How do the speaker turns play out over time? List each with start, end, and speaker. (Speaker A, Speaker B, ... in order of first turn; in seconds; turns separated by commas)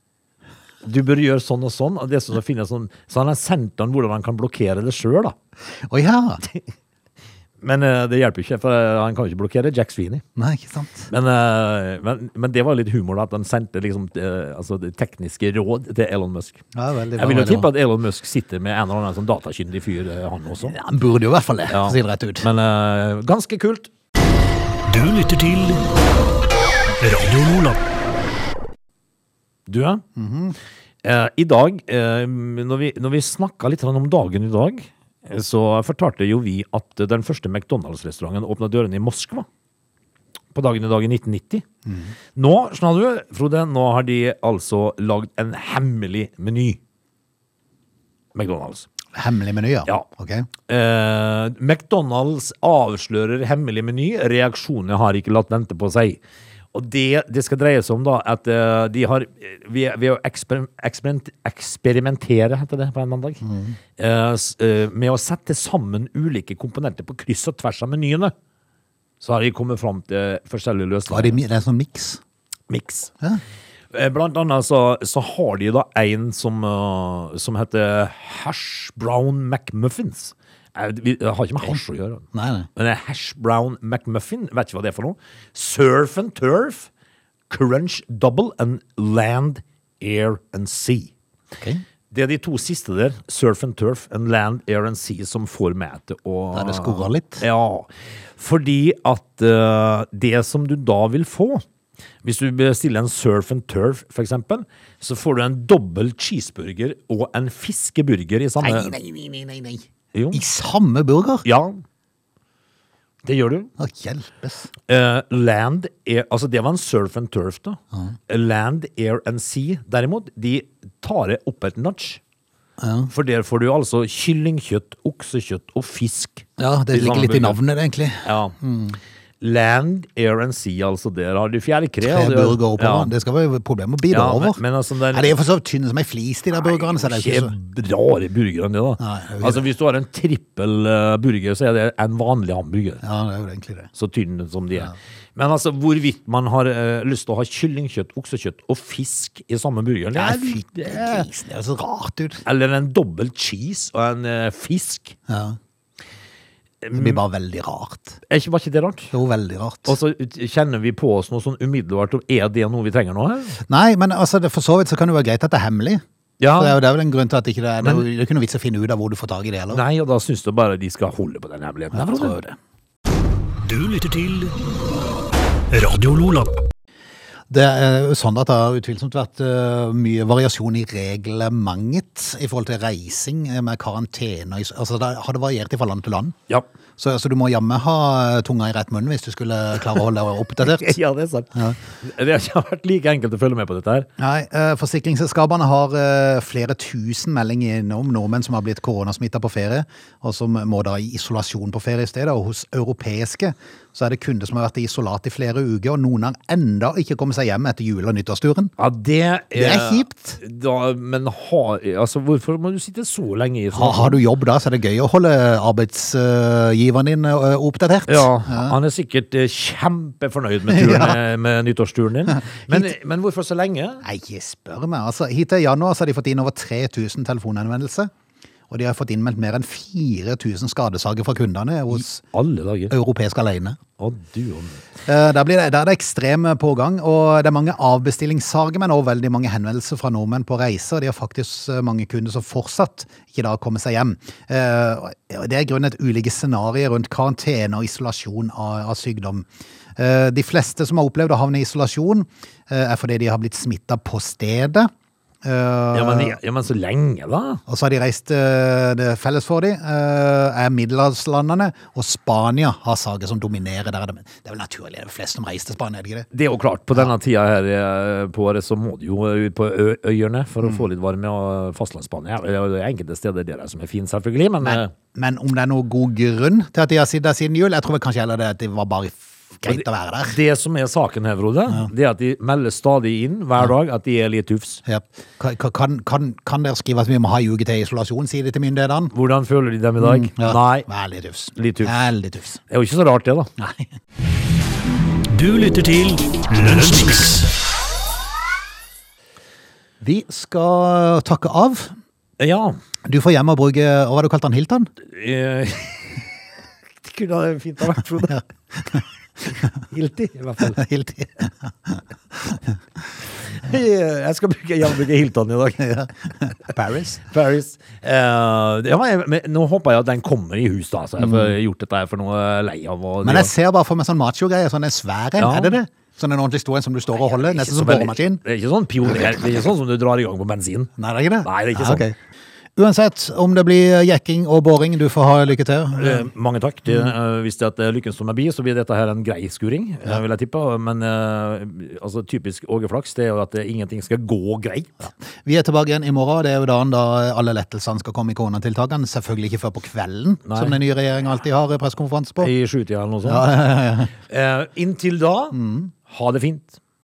Speaker A: 0.8-5.3, Speaker B: 5.9-6.4, Speaker A: 7.6-10.2, Speaker B: 10.4-11.1, Speaker A: 11.1-16.6, Speaker B: 16.8-17.7, Speaker A: 17.2-20.8, Speaker B: 20.6-22.5, Speaker A: 21.7-23.9, Speaker C: 24.9-25.9, Speaker C: 27.0-27.8, Speaker A: 29.7-30.0, Speaker B: 30.2-30.6, Speaker A: 31.0-39.5, Speaker A: 40.5-41.7, Speaker B: 41.9-42.1, Speaker A: 42.4-46.8, Speaker A: 48.4-48.9, Speaker B: 49.1-50.5, Speaker A: 50.7-56.2, Speaker A: 56.7-63.4, Speaker B: 63.4-63.8, Speaker A: 64.0-68.3, Speaker A: 69.2-71.4, Speaker B: 71.1-72.2, Speaker A: 72.7-73.1, Speaker A: 73.9-86.9, Speaker B: 82.3-82.7, Speaker A: 87.5-91.1, Speaker A: 92.1-101.6, Speaker B: 96.5-97.5, Speaker A: 102.2-108.9, Speaker B: 108.6-111.5, Speaker A: 110.1-110.4, Speaker A: 111.5-111.8, Speaker A: 113.2-113.7, Speaker B: 113.8-114.7, Speaker A: 114.9-122.2, Speaker B: 122.8-123.1, Speaker A: 123.1-127.6, Speaker B: 126.6-129.0, Speaker A: 128.2-128.6, Speaker A: 129.4-133.1, Speaker B: 132.0-134.6, Speaker A: 134.1-135.4, Speaker B: 135.1-137.5, Speaker A: 136.6-143.0, Speaker B: 139.0-139.7, Speaker B: 143.0-143.9, Speaker A: 144.0-151.3, Speaker B: 150.2-152.4, Speaker A: 152.5-155.2, Speaker B: 155.3-155.6, Speaker A: 156.8-157.2, Speaker B: 156.9-158.2, Speaker A: 158.3-159.1, Speaker B: 159.1-160.0, Speaker A: 159.9-163.6, Speaker B: 163.7-166.0, Speaker A: 166.4-166.8, Speaker B: 166.6-169.8, Speaker A: 169.7-172.4, Speaker B: 171.9-172.6, Speaker C: 173.6-174.6, Speaker C: 175.7-176.6, Speaker B: 177.5-186.3, Speaker B: 187.0-190.9, Speaker A: 190.6-194.1, Speaker B: 194.2-208.7, Speaker A: 208.8-214.2, Speaker B: 209.5-210.4, Speaker B: 213.7-218.8, Speaker A: 218.1-224.0, Speaker B: 220.7-221.2, Speaker B: 222.5-222.9, Speaker B: 224.0-228.1, Speaker B: 228.7-232.2, Speaker A: 231.9-232.9, Speaker B: 232.9-233.8, Speaker A: 234.0-234.8, Speaker B: 235.1-254.9, Speaker B: 255.4-256.4, Speaker A: 255.9-257.6, Speaker B: 257.7-266.3, Speaker A: 266.3-274.9, Speaker B: 274.6-280.4, Speaker A: 279.7-284.8, Speaker B: 284.9-289.1, Speaker A: 289.1-290.9, Speaker B: 290.0-292.6, Speaker A: 291.5-292.1, Speaker A: 292.7-293.5, Speaker B: 293.6-293.9, Speaker C: 295.3-297.5, Speaker B: 300.0-302.0, Speaker A: 302.4-302.8, Speaker B: 303.1-304.9, Speaker A: 305.1-306.2, Speaker A: 307.0-308.4, Speaker A: 309.8-310.8, Speaker B: 310.7-312.6, Speaker A: 313.5-316.0, Speaker B: 315.8-317.2, Speaker A: 317.2-323.5, Speaker B: 321.2-321.5, Speaker B: 323.2-328.4, Speaker A: 325.4-325.8, Speaker A: 327.4-330.9, Speaker B: 331.0-332.1, Speaker A: 331.4-332.1, Speaker B: 332.8-336.3, Speaker A: 335.9-345.1, Speaker B: 336.9-337.1, Speaker B: 345.4-352.5, Speaker A: 350.5-350.8, Speaker A: 352.4-353.5, Speaker B: 353.2-354.1, Speaker A: 354.3-356.8, Speaker B: 355.5-355.9